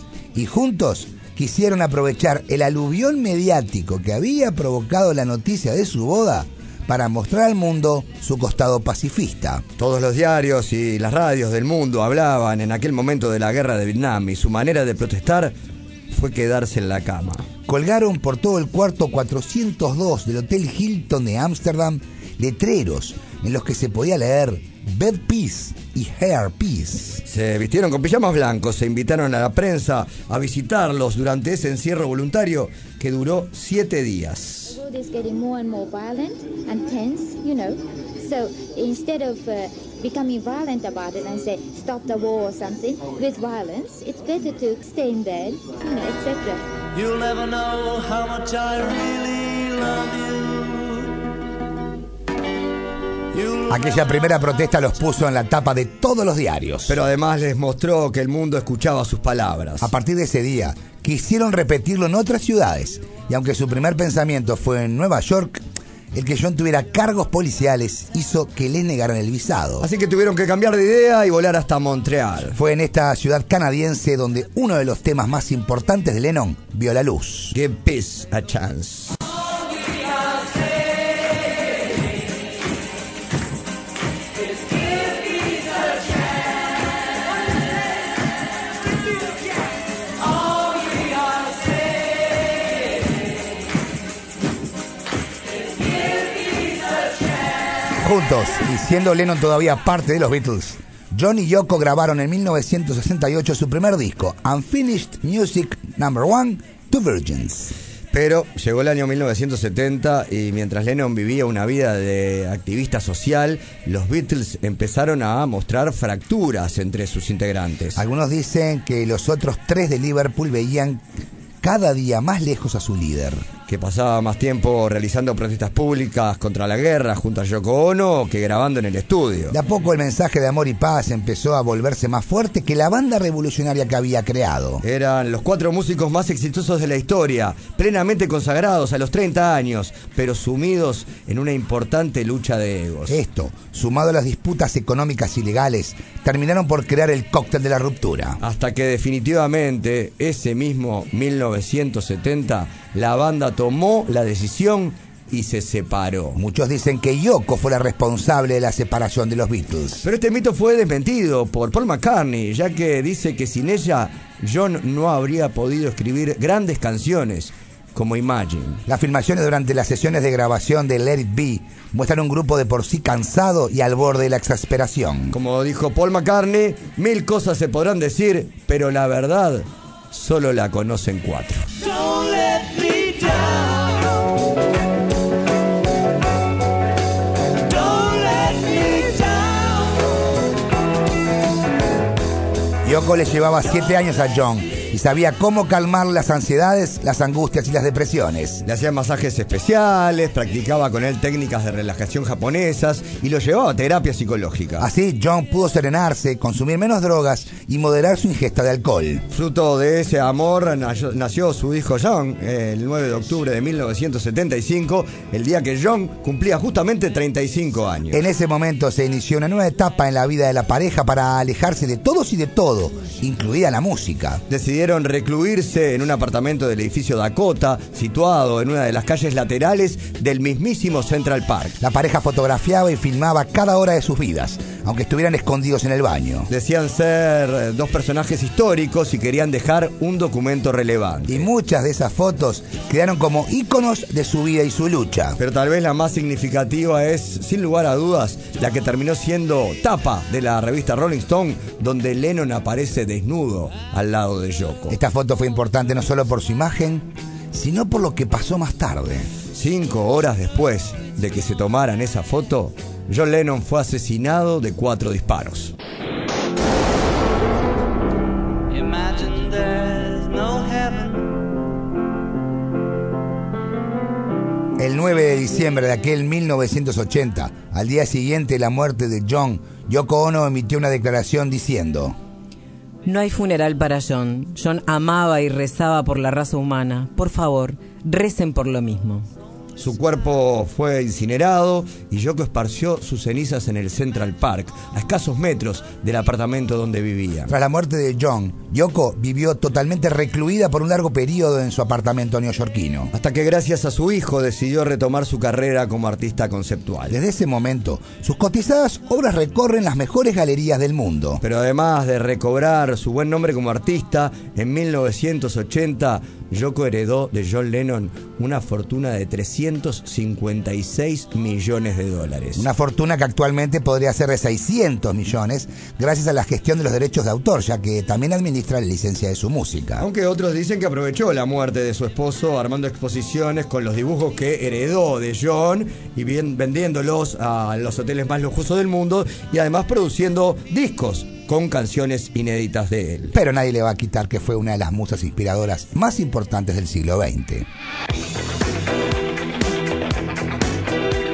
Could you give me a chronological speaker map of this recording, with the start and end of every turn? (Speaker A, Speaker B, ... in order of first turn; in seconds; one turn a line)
Speaker A: 0.3-9.6
Speaker B: 9.8-15.5
Speaker B: 16.1-17.5
Speaker A: 17.7-27.2
Speaker B: 27.3-34.8
Speaker C: 34.7-46.6
Speaker D: 46.9-51.1
Speaker D: 53.3-54.3
Speaker A: 53.7-57.0
Speaker B: 56.9-59.9
Speaker A: 59.8-65.6
Speaker A: 66.1-69.9
Speaker B: 69.8-72.5
Speaker A: 72.5-77.6
Speaker B: 77.5-79.2
Speaker A: 98.0-107.8
Speaker B: 108.1-118.0
Speaker A: 118.0-121.0
Speaker A: 121.6-123.5
Speaker B: 123.7-129.6
Speaker A: 129.5-134.8
Speaker B: 134.8-143.2
Speaker A: 143.1-148.4
Speaker B: 148.4-156.4
Speaker A: 156.4-160.1
Speaker B: 160.0-168.8
Speaker A: 168.9-175.3
Speaker B: 175.3-181.7
Speaker D: 181.8-184.1
Speaker D: 187.7-190.0
Speaker A: 192.8-198.6
Speaker B: 198.6-204.9
Speaker A: 204.8-209.2
Speaker B: 209.3-218.2
Speaker A: 218.1-224.4
Speaker B: 224.5-231.8
Speaker A: 231.8-236.5
Speaker B: 236.5-241.5
Speaker A: 241.3-245.4
Speaker B: 245.4-255.0
Speaker A: 254.9-259.3
Speaker B: 259.5-265.7
Speaker D: 268.7-271.4
Speaker A: 274.8-282.1
Speaker E: 283.1-289.3
Speaker B: 289.8-297.5
Speaker A: 297.5-303.1
Speaker B: 303.1-307.2
Speaker A: 307.1-311.4
Speaker B: 311.4-322.6
Speaker A: 322.6-330.1
Speaker B: 330.0-343.4
Speaker A: 343.3-347.7